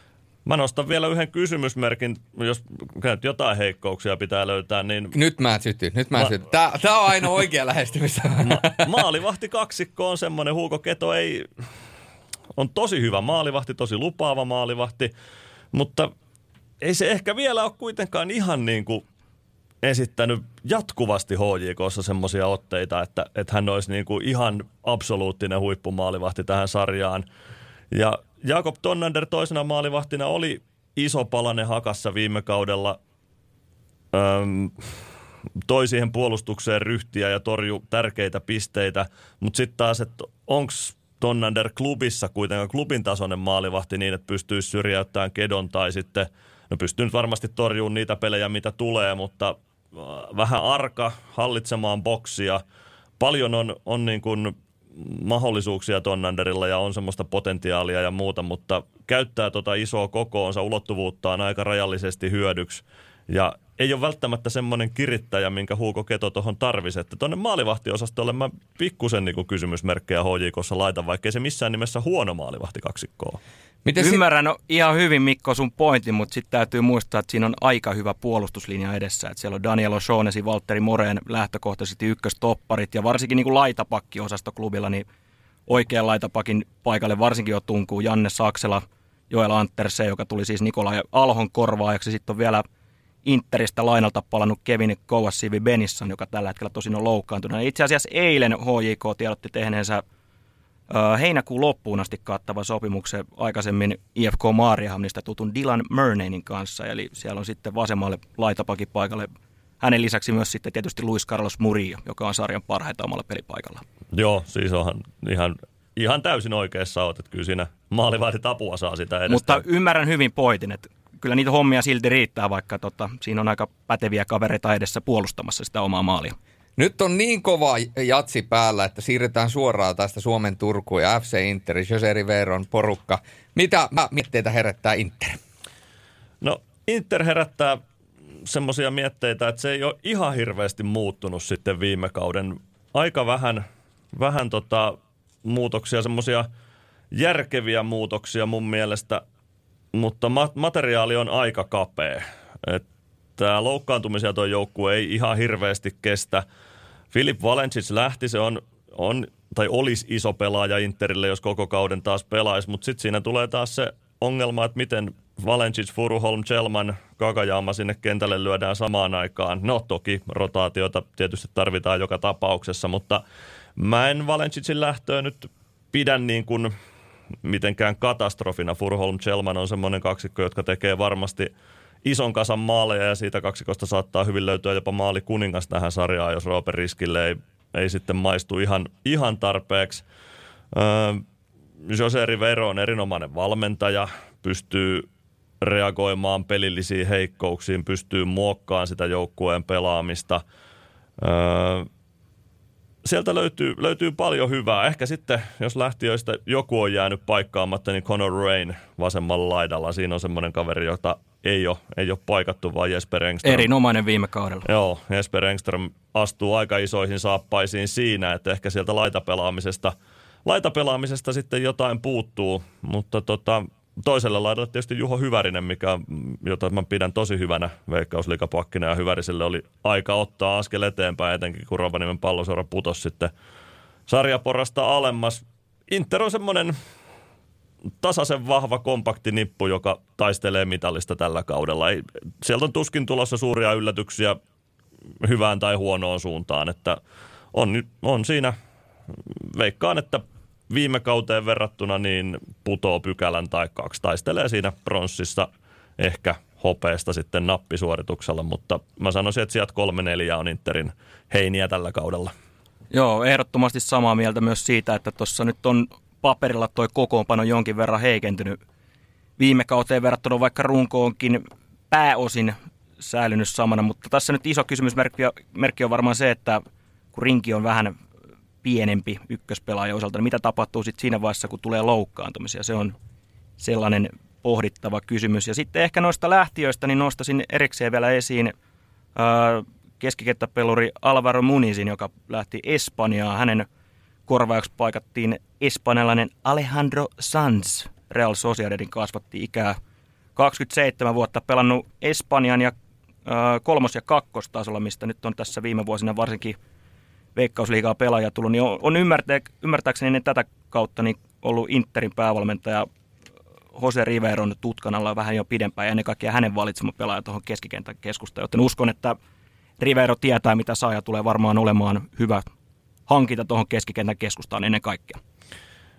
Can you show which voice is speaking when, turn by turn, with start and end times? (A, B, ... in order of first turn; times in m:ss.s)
0:00.4-0:05.2 A
0:05.1-0:08.9 B
0:08.4-0:11.5 A
0:12.6-0:15.1 A
0:15.7-0:16.1 A
0:16.8-0:19.0 A
0:19.8-0:27.3 A
0:27.9-0:33.0 A
0:34.1-0:34.9 A
0:35.7-0:52.6 A
0:53.2-1:13.4 A
1:13.8-1:14.2 B
1:14.0-1:25.0 C
1:25.7-1:32.6 C
1:33.2-1:40.0 C
1:40.9-1:49.3 C
1:49.8-1:53.8 C
1:54.1-1:59.6 A
1:59.3-2:06.4 C
2:06.8-2:15.4 B
2:16.4-2:17.8 A
2:18.5-2:26.5 A
2:27.1-2:29.2 A
2:29.9-2:32.8 A
2:33.4-2:36.4 A
2:37.1-2:53.2 A
2:53.8-2:56.7 A
2:57.4-3:01.5 A
3:02.0-3:10.0 A
3:10.7-3:11.2 A
3:11.9-3:15.1 A
3:15.6-3:20.4 A
3:21.2-3:21.9 A
3:23.0-3:33.7 A
3:33.4-3:34.6 C
3:34.7-3:39.9 A
3:40.4-3:53.3 A
3:54.1-3:56.8 A
3:58.0-4:04.4 A
4:05.2-4:07.0 A
4:07.5-4:08.6 A
4:09.3-4:22.3 A
4:22.9-4:28.6 C
4:29.4-4:36.6 C
4:37.1-4:38.0 C
4:38.6-4:43.0 C
4:43.6-4:48.5 C
4:49.2-4:53.7 C
4:54.3-4:59.8 C
5:00.4-5:02.7 C
5:03.3-5:06.6 C
5:07.4-5:12.9 C
5:13.8-5:19.2 C
5:19.8-5:22.5 C
5:23.1-5:25.2 C